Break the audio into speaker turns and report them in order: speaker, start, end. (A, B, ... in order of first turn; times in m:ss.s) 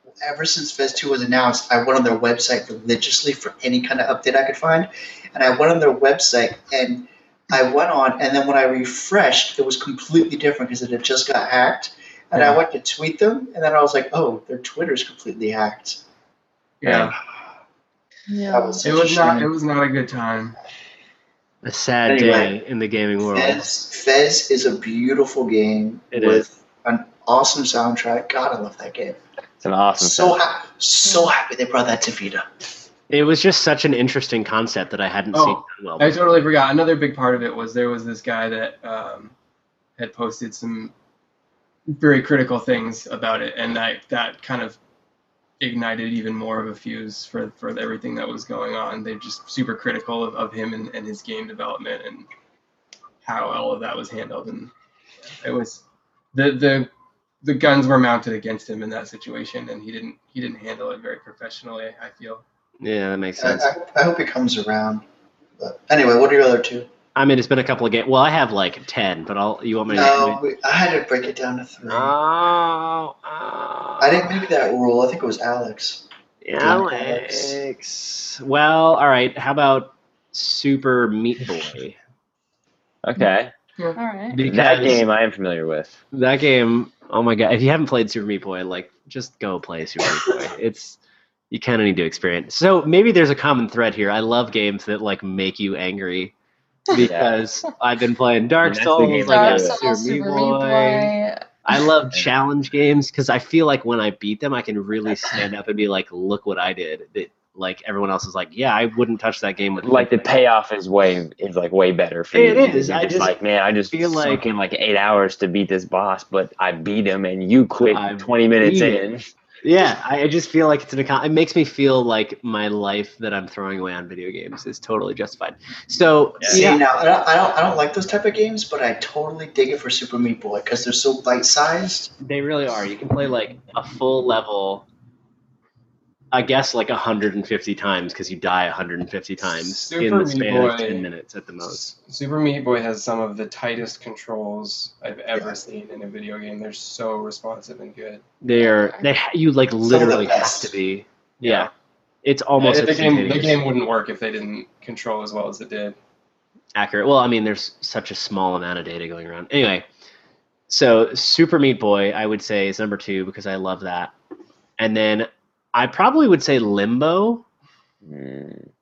0:00.2-0:16.0 A
0:16.8-0:17.2 B
0:16.8-0:17.2 A
0:18.3-0:18.8 C
0:18.5-0:19.5 A
0:18.8-0:20.6 B
0:21.6-0:23.7 D
0:22.1-0:22.6 A
0:23.3-0:29.2 A
0:26.1-0:26.4 D
0:29.6-0:30.4 E
0:30.0-0:32.5 A
0:33.1-0:36.2 D
0:35.3-0:39.3 B
0:40.0-0:40.9 B
0:41.9-0:44.8 B
0:45.6-0:52.3 B
0:53.2-0:54.7 B
0:55.4-0:55.8 B
0:56.3-0:56.9 B
0:57.4-1:02.4 B
1:02.8-1:03.7 D
1:03.4-1:05.0 A
1:05.6-1:06.9 A
1:07.2-1:10.4 D
1:09.9-1:12.2 A
1:11.9-1:14.4 D
1:14.0-1:16.0 A
1:16.4-1:22.0 D
1:16.6-1:17.7 A
1:23.0-1:23.5 E
1:24.0-1:24.4 C
1:24.3-1:25.1 D
1:24.4-1:26.0 E
1:26.1-1:31.0 D
1:31.5-1:36.3 D
1:36.9-1:41.1 D
1:36.9-1:37.4 E
1:38.6-1:39.8 E
1:39.1-1:41.4 C
1:41.6-1:50.2 D
1:49.8-1:59.3 E
1:52.3-1:53.4 D
1:53.9-1:54.4 D
1:57.9-1:59.0 D
1:59.6-2:06.8 D
2:06.5-2:12.1 A
2:12.2-2:14.9 D
2:16.3-2:21.9 D
2:19.6-2:21.1 B
2:21.7-2:28.2 B
2:28.4-2:31.7 D
2:28.5-2:29.1 C
2:29.9-2:30.8 A
2:31.4-2:31.7 B
2:32.2-2:33.6 D
2:32.6-2:36.0 B
2:36.8-2:39.9 D
2:40.7-2:44.1 D
2:44.8-2:47.4 D
2:48.0-2:48.7 E